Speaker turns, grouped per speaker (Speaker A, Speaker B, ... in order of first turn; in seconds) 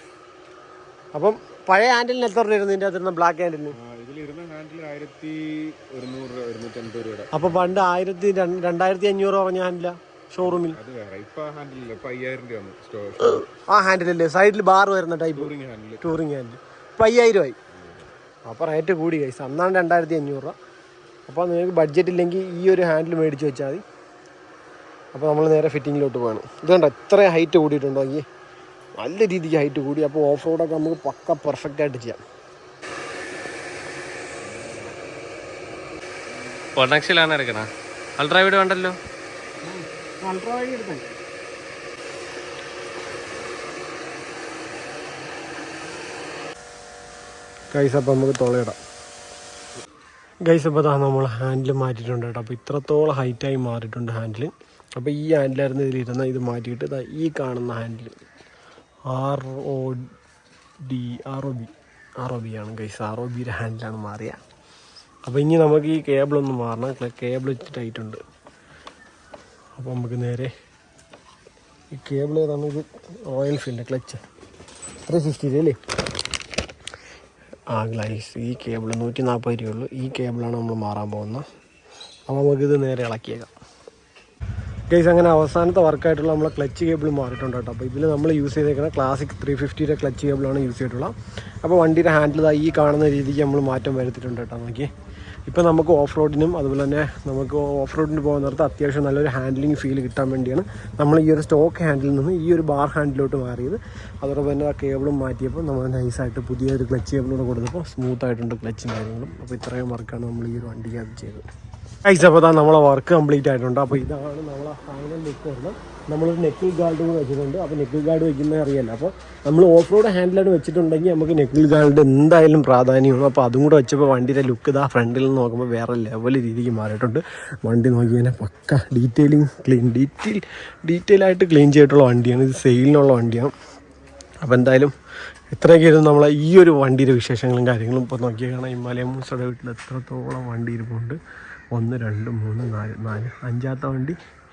Speaker A: 1.1-3.8, 7.3-10.8, 13.7-17.6, 18.5-20.6, 21.3-23.8, 25.1-28.2, 29.0-32.2, 39.6-41.1, 47.7-48.8, 50.5-58.1, 59.1-60.1, 60.8-64.4, 65.3-68.2, 69.8-70.5, 71.9-74.2, 75.1-75.8, 77.7-81.5, 82.3-83.5, 84.9-91.1, 91.6-94.9, 95.5-111.5, 112.0-133.5, 134.4-134.9, 135.5-141.2, 141.7-144.2
Speaker B: 3.8-7.7, 10.4-13.6, 15.3-16.1, 17.7-18.1
Speaker C: 36.8-39.0